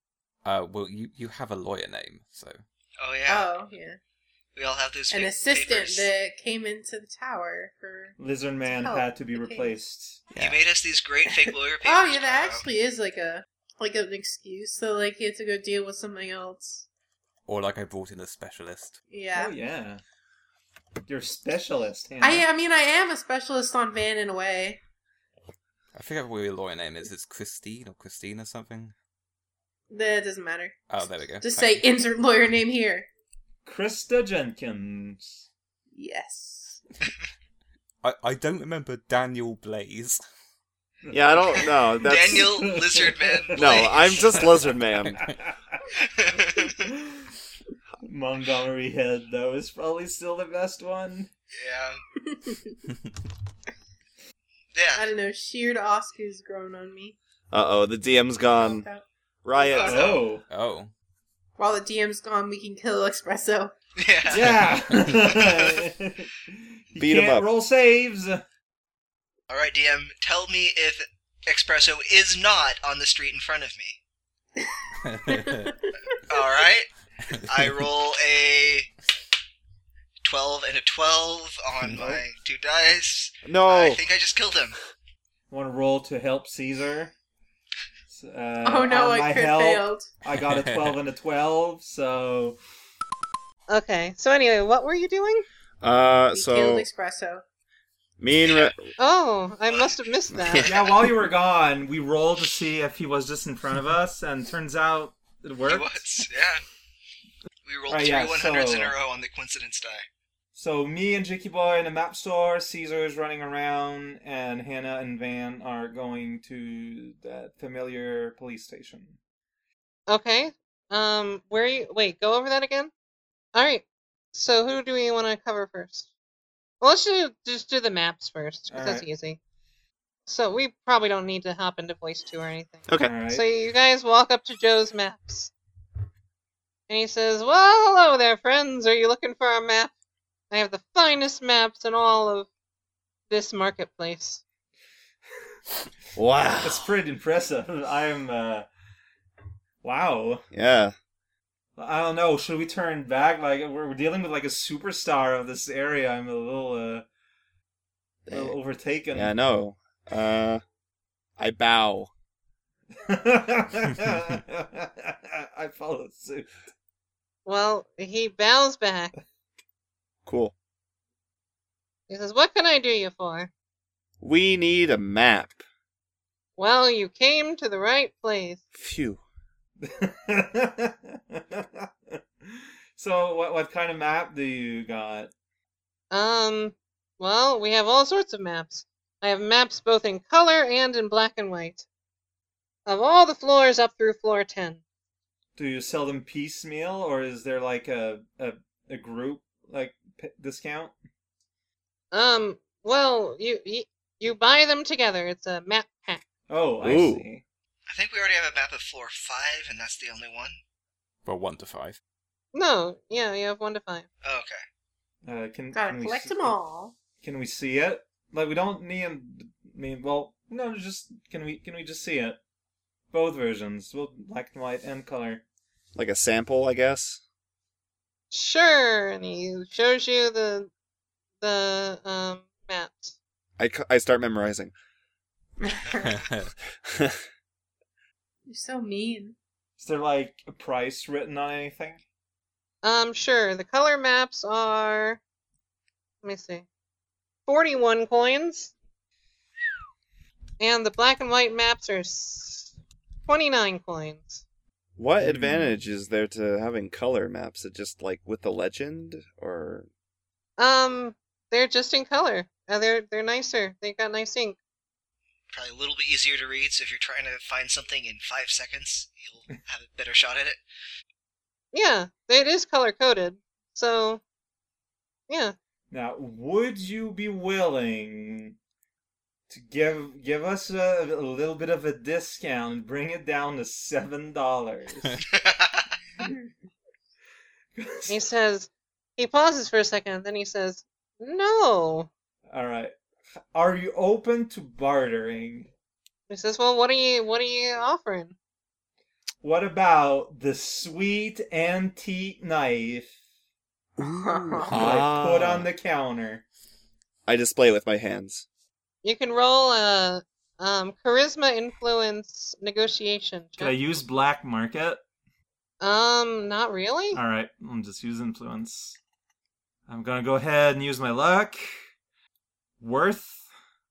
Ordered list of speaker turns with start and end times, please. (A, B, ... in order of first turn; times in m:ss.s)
0:00.4-0:02.6 A
0:03.0-0:03.5 B
0:03.3-0:04.0 C
0:04.6-0:06.1 B
0:05.1-0:09.7 C
0:08.2-0:10.2 D
0:10.3-0:10.6 A
0:10.3-0:12.6 B
0:11.3-0:16.9 C
0:17.5-0:19.0 A
0:19.1-0:19.5 C
0:19.3-0:20.0 D
0:21.0-0:22.4 D
0:22.2-0:24.8 C
0:25.9-0:28.9 A
0:29.9-0:33.1 C
0:30.9-0:31.8 A
0:33.6-0:35.5 D
0:35.9-0:36.8 C
0:38.0-0:40.2 A
0:41.1-0:45.8 D
0:41.1-0:42.6 E
0:42.0-0:44.7 B
0:43.5-0:45.2 E
0:45.9-0:46.9 B
0:46.9-0:47.3 D
0:48.0-0:51.3 D
0:51.5-0:52.0 B
0:52.3-0:52.8 C
0:54.7-0:55.0 B
0:55.0-0:57.2 C
0:57.5-0:58.8 E
0:58.5-1:00.1 C
0:59.4-1:00.0 E
0:59.7-1:00.3 B
0:59.8-1:00.4 D
1:00.5-1:00.9 A
1:01.6-1:03.7 C
1:04.0-1:05.8 B
1:04.3-1:08.4 D
1:07.0-1:07.5 E
1:09.5-1:14.0 B
1:14.6-1:15.9 C
1:15.0-1:15.7 A
1:16.2-1:18.9 B
1:17.3-1:17.8 A
1:20.2-1:24.8 B
1:23.4-1:24.0 E
1:25.5-1:27.1 D
1:28.1-1:32.6 D
1:28.6-1:30.2 C
1:30.5-1:30.9 A
1:33.7-1:35.4 F
1:35.8-1:36.9 E
1:36.3-1:37.4 C
1:38.2-1:38.9 E
1:38.4-1:38.7 B
1:39.0-1:40.7 F
1:40.4-1:40.6 E
1:40.6-1:41.0 B
1:40.6-1:45.9 D
1:45.6-1:46.6 B
1:47.6-1:50.0 B
1:47.9-1:49.0 D
1:50.5-1:59.2 D
2:00.1-2:02.9 F
2:03.5-2:06.1 F
2:06.8-2:09.4 F
2:08.7-2:09.1 D
2:10.3-2:15.5 F
2:13.0-2:13.4 D
2:16.9-2:19.9 F
2:20.5-2:22.5 F
2:23.3-2:24.4 F
2:26.2-2:26.9 E
2:26.6-2:28.7 D
2:29.8-2:30.4 D
2:30.5-2:30.9 E
2:31.8-2:37.0 D
2:38.3-2:38.5 E
2:38.3-2:39.3 D
2:39.1-2:40.6 E
2:41.4-2:42.1 E
2:43.0-2:46.5 D
2:47.4-2:49.1 F
2:50.2-2:50.5 E
2:52.1-2:53.5 F
2:54.2-2:55.6 E
2:56.6-2:58.6 F
2:58.7-2:59.2 E
2:59.8-3:05.3 D
3:06.1-3:11.8 F
3:12.8-3:14.8 F
3:15.6-3:20.9 D
3:22.1-3:26.2 F
3:26.5-3:27.4 D
3:26.8-3:27.2 E
3:27.9-3:30.6 B
3:31.2-3:32.0 A
3:32.5-3:34.0 F
3:34.2-3:34.6 B
3:35.2-3:36.6 D
3:35.7-3:37.0 C
3:37.2-3:42.4 D
3:43.1-3:45.4 D
3:45.9-3:47.2 E
3:48.3-3:50.7 F
3:51.4-3:53.2 F
3:53.6-3:54.7 E
3:55.6-3:56.2 C
3:56.0-3:56.5 A
3:56.8-3:57.2 E
3:58.4-3:59.4 C
3:59.8-4:02.0 D
4:02.8-4:05.2 F
4:06.2-4:06.6 F
4:07.5-4:08.7 F
4:10.6-4:12.7 F
4:13.3-4:14.4 F
4:15.0-4:19.9 E
4:15.2-4:15.8 D
4:20.6-4:24.6 F
4:25.5-4:30.6 B
4:31.7-4:34.2 F
4:35.3-4:35.5 F
4:35.9-4:38.6 D
4:39.5-4:45.2 D
4:45.3-4:45.9 B
4:47.8-4:48.2 D
4:48.1-4:52.1 F
4:52.5-4:52.9 D
4:53.5-4:55.7 D
4:56.3-4:58.4 F
4:59.4-5:03.1 D
5:04.0-5:05.7 E
5:04.0-5:04.9 C
5:04.7-5:06.4 D
5:07.2-5:08.4 E
5:09.0-5:13.8 F
5:13.6-5:15.0 D
5:15.8-5:17.2 F
5:17.1-5:19.0 D
5:19.9-5:21.8 D
5:22.8-5:23.5 D